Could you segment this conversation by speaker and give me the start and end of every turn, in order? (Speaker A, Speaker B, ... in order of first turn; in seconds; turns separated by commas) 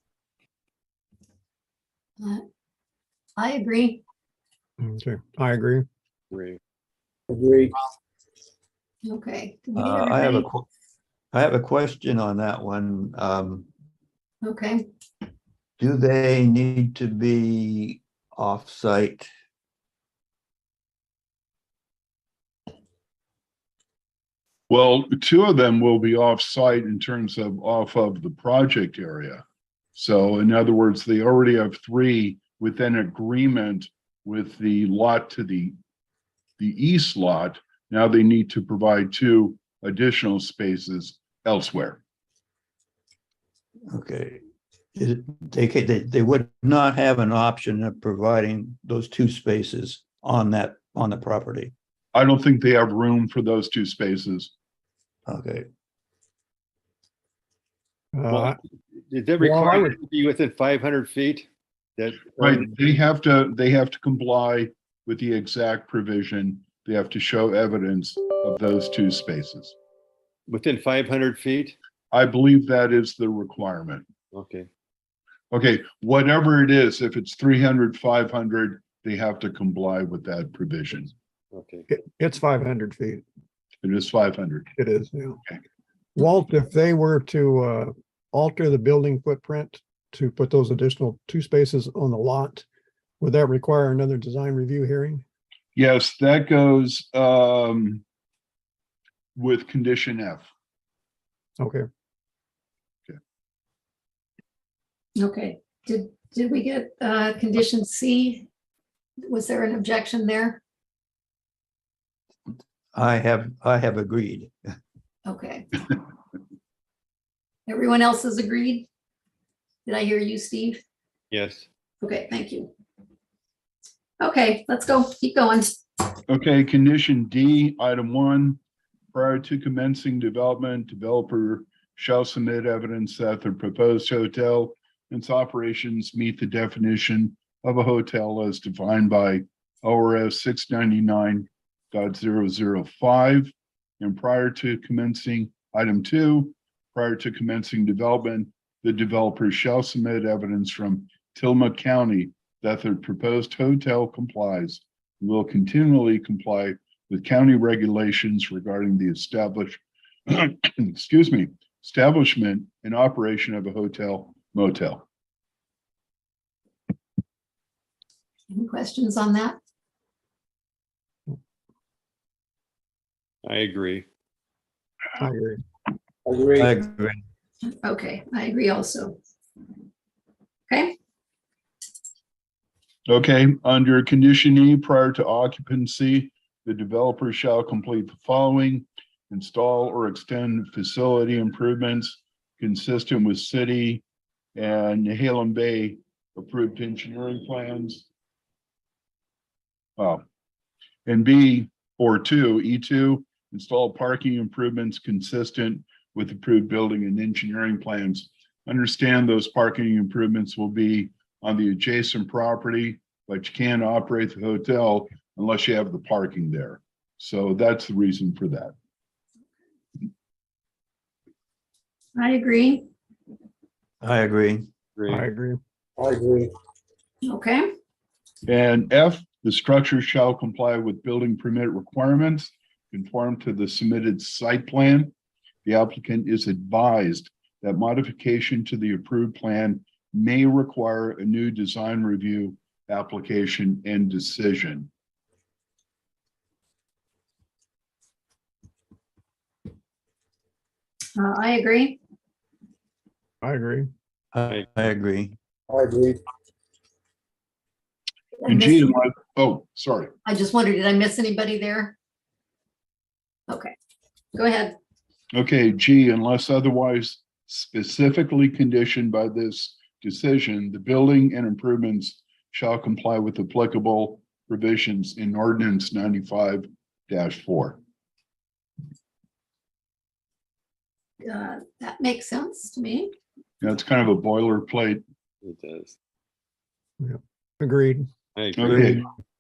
Speaker A: 3.4-4.0, Speaker B: 4.8-5.9, Speaker C: 6.3-6.6, Speaker D: 7.3-7.8, Speaker A: 9.0-10.4, Speaker E: 9.8-10.7, Speaker E: 11.3-13.7, Speaker A: 14.4-14.8, Speaker E: 15.8-19.3, Speaker F: 24.7-29.4, Speaker F: 29.9-35.8, Speaker F: 36.6-42.0, Speaker E: 43.9-44.4, Speaker E: 45.0-51.7, Speaker F: 52.1-54.5, Speaker E: 55.3-55.7, Speaker B: 58.1-58.6, Speaker C: 58.3-62.7, Speaker B: 59.4-60.0, Speaker F: 62.4-69.8, Speaker C: 70.5-71.8, Speaker F: 72.1-74.1, Speaker C: 74.3-74.7, Speaker F: 75.5-81.1, Speaker C: 81.5-81.9, Speaker B: 81.9-83.2, Speaker F: 83.8-84.7, Speaker B: 84.8-85.4, Speaker B: 86.2-92.7, Speaker B: 93.2-95.2, Speaker F: 95.8-98.0, Speaker F: 99.4-100.5, Speaker B: 101.6-101.9, Speaker A: 105.2-108.5, Speaker A: 109.2-110.6, Speaker E: 112.9-114.5, Speaker A: 115.3-115.8, Speaker A: 117.7-118.9, Speaker A: 119.9-120.8, Speaker C: 121.3-121.7, Speaker A: 122.0-122.7, Speaker A: 124.2-125.7, Speaker F: 126.3-128.6, Speaker F: 129.1-165.1, Speaker A: 168.5-169.6, Speaker C: 173.4-174.1, Speaker B: 175.2-175.6, Speaker D: 176.3-176.7, Speaker E: 176.6-177.2, Speaker A: 177.6-179.2, Speaker A: 180.7-181.0, Speaker F: 183.1-194.0, Speaker F: 194.6-198.1, Speaker F: 200.0-200.2, Speaker F: 201.1-218.7, Speaker A: 222.2-222.9, Speaker E: 224.0-224.7, Speaker C: 225.0-225.2, Speaker B: 225.1-225.6, Speaker D: 226.0-226.5, Speaker A: 227.2-227.7, Speaker F: 228.5-235.1, Speaker F: 235.7-244.9, Speaker A: 251.2-252.0, Speaker B: 253.4-253.9, Speaker E: 254.3-255.4, Speaker D: 255.7-256.2, Speaker A: 258.4-258.9, Speaker F: 258.5-260.1, Speaker A: 260.2-261.9, Speaker A: 264.3-264.8, Speaker F: 265.3-277.8, Speaker A: 281.2-283.1, Speaker F: 283.6-285.0, Speaker C: 285.4-285.9, Speaker B: 287.0-288.1, Speaker C: 288.4-289.0, Speaker F: 288.6-289.1